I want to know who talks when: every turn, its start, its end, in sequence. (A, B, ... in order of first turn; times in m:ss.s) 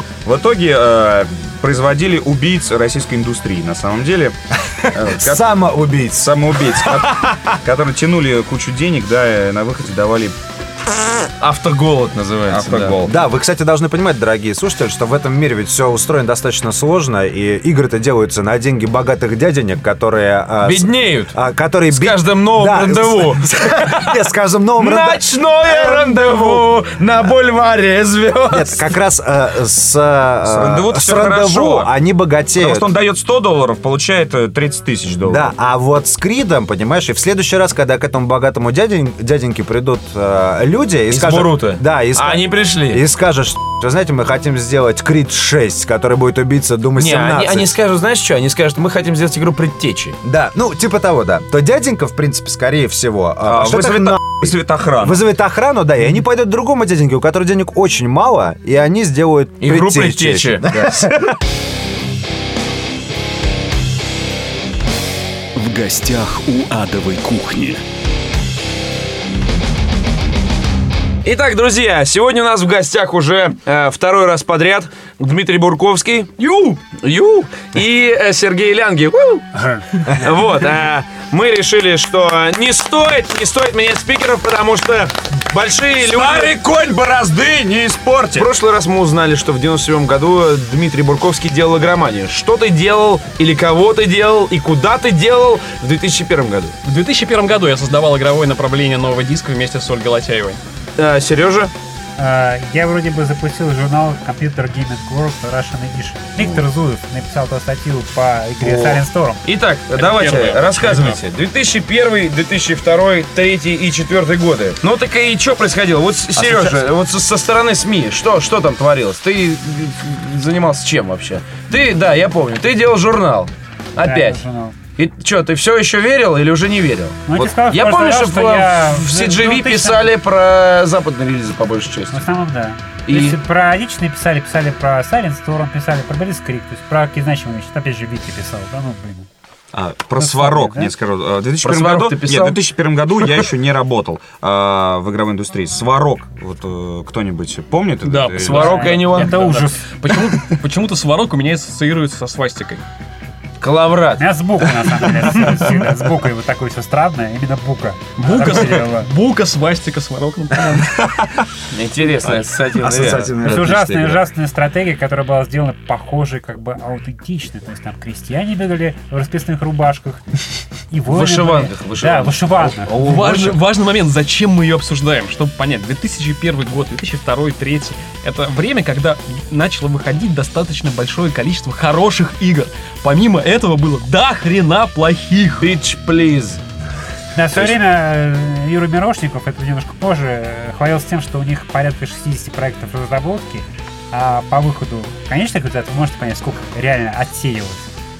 0:00.2-0:10.3 A
0:04.8-0:07.4 B
0:11.4-0:13.0 C
0:12.5-0:13.2 A
0:13.0-0:26.6 B
0:20.6-0:21.3 C
0:21.9-0:24.1 C
0:24.8-0:28.8 C
0:28.5-0:32.9 B
0:30.4-0:31.9 A
0:32.6-0:35.5 A
0:35.2-0:47.7 B
0:41.1-0:43.0 C
0:47.0-0:50.2 C
0:50.2-1:01.3 B
0:53.4-0:55.2 A
0:59.6-1:01.1 C
1:05.6-1:07.8 D
1:11.2-1:26.5 C
1:16.4-1:16.8 E
1:26.0-1:28.5 A
1:28.3-1:36.8 C
1:36.8-1:40.6 E
1:41.0-1:41.7 C
1:42.2-1:49.4 F
1:48.6-2:04.4 C
1:49.9-1:51.2 E
1:56.4-1:56.8 B
2:04.0-2:04.7 F
2:05.0-2:12.2 C
2:07.2-2:10.1 F
2:12.1-2:19.3 F
2:13.1-2:13.4 C
2:19.7-2:28.9 A
2:20.2-2:20.9 F
2:21.6-2:22.6 C
2:28.0-2:32.8 E
2:28.4-2:29.5 C
2:28.5-2:29.9 F
2:33.6-2:35.4 C
2:34.2-2:39.1 F
2:38.2-2:41.0 E
2:41.7-2:44.1 C
2:42.8-2:44.2 B
2:43.4-2:50.2 F
2:50.9-2:53.0 F
2:51.1-2:53.6 C
2:53.0-3:05.7 E
3:05.6-3:06.6 C
3:07.3-3:17.9 F